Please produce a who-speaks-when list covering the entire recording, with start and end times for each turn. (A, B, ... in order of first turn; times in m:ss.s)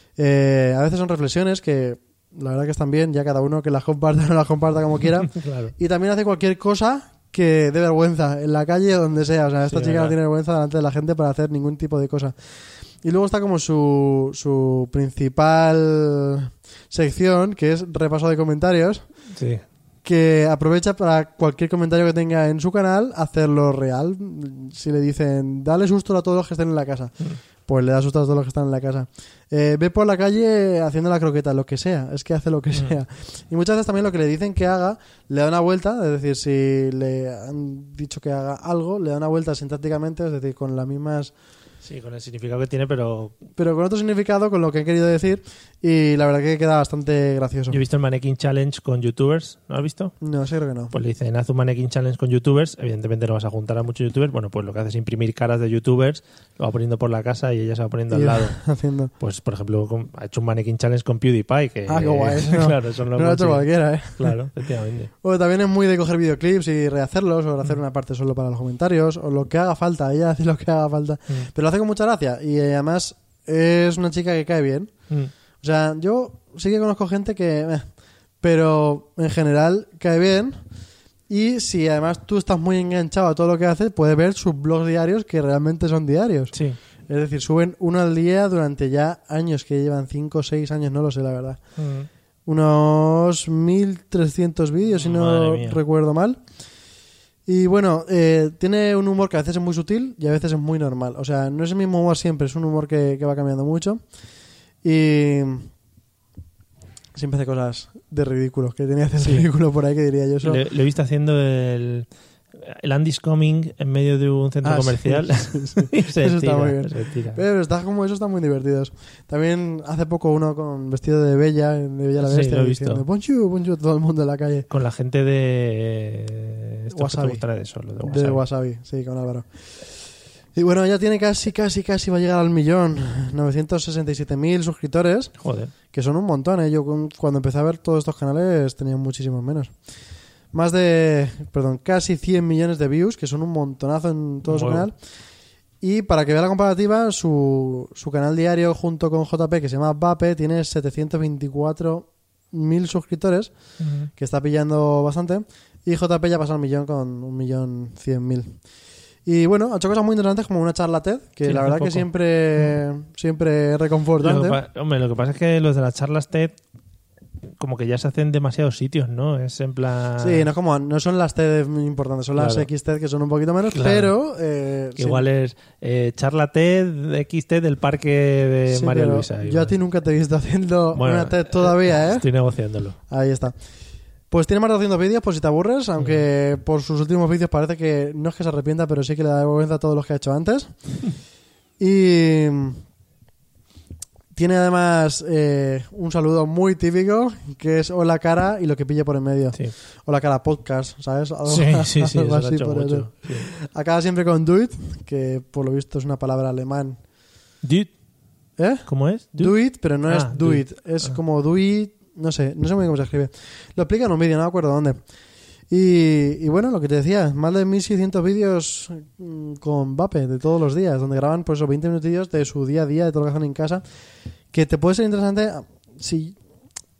0:00.2-0:12.4 A
0:05.3-0:05.7 B
0:09.7-0:10.2 B
0:13.0-0:19.0 A
0:19.3-0:19.6 B
0:20.0-0:27.1 A
0:27.7-0:41.3 A
0:41.8-0:43.4 B
0:43.6-0:47.8 A
0:47.7-0:50.2 B
0:50.2-0:50.9 A
0:50.9-0:58.6 B
0:58.1-0:59.1 A
0:59.2-1:05.1 B
1:01.9-1:04.4 A
1:05.2-1:14.9 A
1:15.6-1:17.8 A
1:18.4-1:20.6 A
1:21.3-1:26.6 A
1:26.5-1:26.8 B
1:27.1-1:31.6 A
1:31.8-1:32.1 B
1:32.5-1:36.4 A
1:34.9-1:35.8 B
1:37.5-1:44.0 A
1:44.8-1:45.7 A
1:47.2-1:50.6 A
1:49.2-1:49.5 B
1:50.4-1:57.4 B
1:54.6-2:04.7 A
2:02.2-2:03.0 B
2:04.7-2:08.4 B
2:06.9-2:07.4 A
2:08.0-2:09.5 A
2:10.6-2:15.3 A
2:15.4-2:15.7 B
2:15.9-2:19.7 A
2:20.5-2:25.0 A
2:24.4-2:24.9 B
2:25.8-2:33.5 A
2:33.8-2:34.1 B
2:34.2-2:38.6 A
2:39.3-2:44.6 A
2:41.4-2:42.8 B
2:44.2-2:46.6 B
2:47.6-2:50.5 B
2:50.2-2:55.3 A
2:52.4-2:52.7 B
2:53.6-2:54.1 B
2:55.0-2:59.8 B
2:58.7-3:02.3 A
3:00.9-3:03.0 B
3:03.1-3:03.5 A
3:04.3-3:10.7 A
3:11.8-3:12.8 A
3:14.3-3:27.0 A
3:21.5-3:23.5 B
3:27.6-3:27.9 B
3:28.6-3:35.0 A
3:28.8-3:31.2 B
3:35.7-3:43.8 A
3:44.5-3:46.4 A